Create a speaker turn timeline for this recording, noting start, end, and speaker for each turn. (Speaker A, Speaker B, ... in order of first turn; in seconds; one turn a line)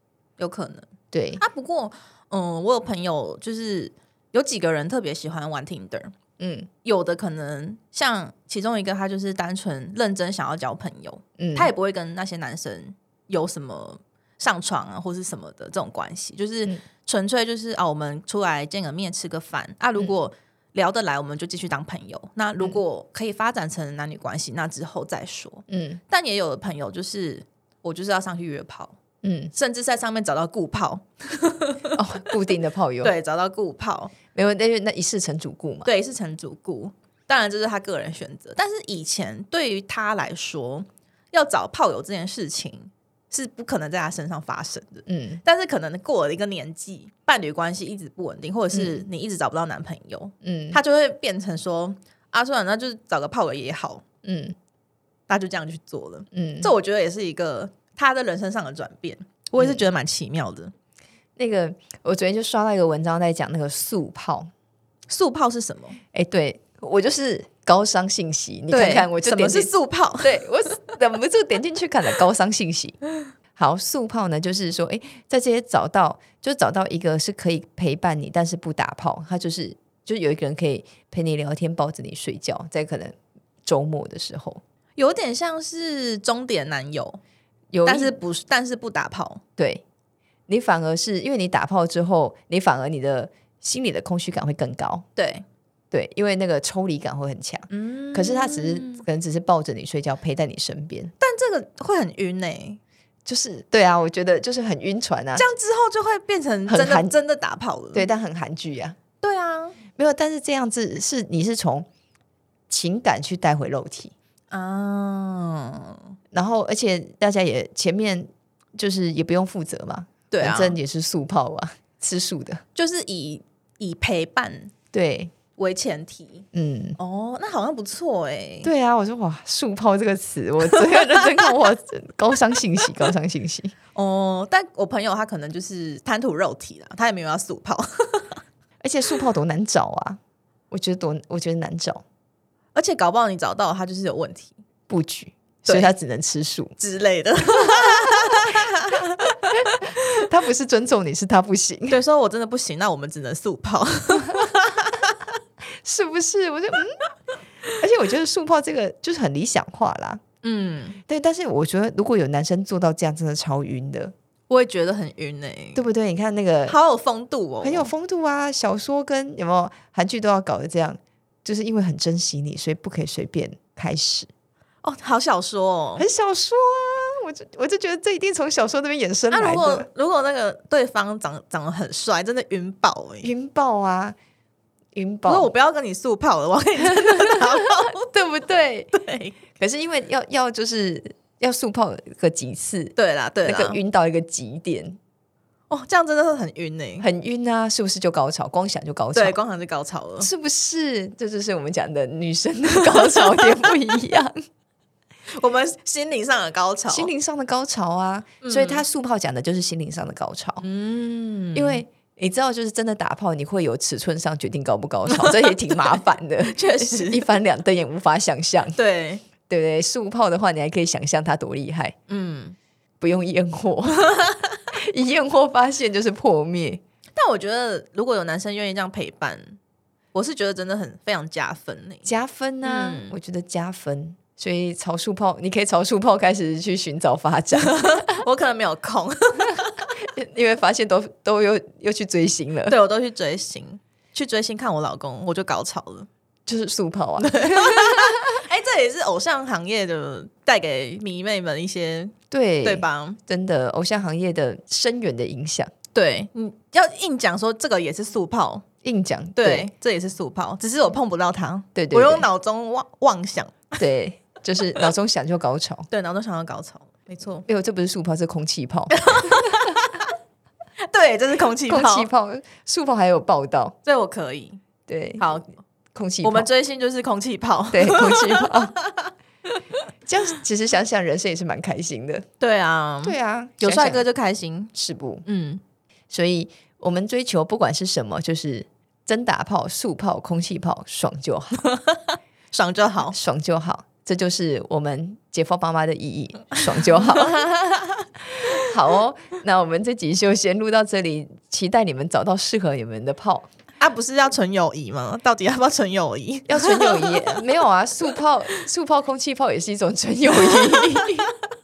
Speaker A: 0.4-0.9
Speaker B: 1.1-1.4
Speaker A: 1.4-6.1
Speaker B: 6.4-6.7
Speaker A: 6.8-29.0
Speaker B: 11.4-11.7
Speaker B: 25.7-26.0
Speaker B: 29.2-29.5
Speaker A: 29.5-32.0
Speaker B: 31.9-33.1
Speaker A: 33.0-34.1
Speaker B: 34.3-35.9
Speaker A: 35.8-54.0
Speaker B: 45.0-45.4
Speaker B: 48.7-49.0
Speaker B: 50.4-50.8
Speaker B: 54.2-54.5
Speaker A: 55.3-60.7
Speaker B: 56.3-56.7
Speaker B: 59.6-59.8
Speaker B: 61.4-64.5
Speaker A: 65.1-66.0
Speaker B: 66.1-73.0
Speaker A: 68.7-70.4
Speaker B: 73.5-84.6
Speaker A: 85.0-87.2
Speaker B: 87.7-88.2
Speaker A: 87.8-89.4
Speaker B: 89.6-89.8
Speaker B: 90.5-95.0
Speaker A: 95.2-95.4
Speaker B: 95.9-101.1
Speaker A: 97.7-99.0
Speaker A: 101.2-102.8
Speaker B: 103.2-105.5
Speaker A: 105.3-108.1
Speaker B: 106.7-107.2
Speaker B: 107.9-109.0
Speaker A: 109.2-109.8
Speaker B: 110.0-111.9
Speaker B: 112.7-114.1
Speaker A: 114.5-116.1
Speaker B: 116.3-122.6
Speaker A: 120.3-120.8
Speaker A: 122.7-124.7
Speaker B: 124.9-125.3
Speaker A: 125.5-126.4
Speaker B: 126.5-127.0
Speaker A: 127.0-128.7
Speaker B: 128.6-133.7
Speaker A: 130.7-131.5
Speaker A: 133.9-138.4
Speaker B: 138.8-140.2
Speaker B: 140.7-142.0
Speaker A: 142.7-144.6
Speaker B: 144.9-146.7
Speaker A: 145.6-145.9
Speaker A: 146.8-149.8
Speaker B: 150.1-152.0
Speaker A: 151.9-155.1
Speaker B: 155.8-157.0
Speaker B: 157.7-160.2
Speaker A: 160.4-161.0
Speaker B: 161.1-164.1
Speaker A: 164.5-165.8
Speaker B: 165.7-166.8
Speaker A: 166.7-167.9
Speaker B: 167.6-174.3
Speaker A: 174.8-176.1
Speaker B: 175.9-179.9
Speaker A: 179.3-183.3
Speaker B: 183.2-184.2
Speaker B: 184.9-185.5
Speaker A: 185.2-188.0
Speaker B: 187.0-188.9
Speaker A: 188.9-189.4
Speaker B: 189.6-195.0
Speaker A: 192.9-193.8
Speaker A: 195.7-197.1
Speaker B: 197.0-199.4
Speaker A: 199.1-200.3
Speaker B: 200.2-204.3
Speaker A: 202.7-203.8
Speaker A: 205.3-207.1
Speaker B: 206.9-210.6
Speaker A: 208.4-208.8
Speaker A: 210.6-211.8
Speaker B: 211.5-218.8
Speaker A: 215.1-215.7
Speaker A: 216.4-217.3
Speaker A: 218.7-219.2
Speaker B: 219.5-221.9
Speaker A: 222.1-222.6
Speaker B: 223.0-224.1
Speaker A: 223.9-224.5
Speaker B: 224.7-226.8
Speaker A: 227.1-229.6
Speaker A: 230.1-232.1
Speaker B: 232.0-238.2
Speaker A: 232.6-233.2
Speaker A: 237.5-239.9
Speaker B: 239.5-242.8
Speaker A: 242.7-246.1
Speaker B: 246.4-248.3
Speaker A: 247.2-253.2
Speaker B: 252.3-255.7
Speaker A: 255.9-258.6
Speaker B: 258.8-259.7
Speaker A: 259.4-263.9
Speaker B: 261.7-262.3
Speaker B: 263.8-265.9
Speaker A: 265.9-267.4
Speaker B: 267.4-269.5
Speaker A: 268.9-270.1
Speaker A: 270.8-272.1
Speaker B: 271.6-273.8
Speaker A: 273.8-274.6
Speaker B: 274.9-275.4
Speaker A: 275.2-275.5
Speaker B: 275.9-276.5
Speaker A: 276.2-279.6
Speaker B: 277.7-278.7
Speaker B: 280.1-282.2
Speaker A: 282.4-284.7
Speaker B: 283.0-284.1
Speaker B: 284.7-285.2
Speaker A: 285.2-285.6
Speaker B: 286.1-291.6
Speaker A: 291.6-293.1
Speaker B: 293.1-297.6
Speaker A: 296.8-298.0
Speaker B: 298.2-303.5
Speaker A: 303.8-307.4
Speaker B: 306.5-311.3
Speaker A: 308.1-308.6
Speaker A: 310.4-311.1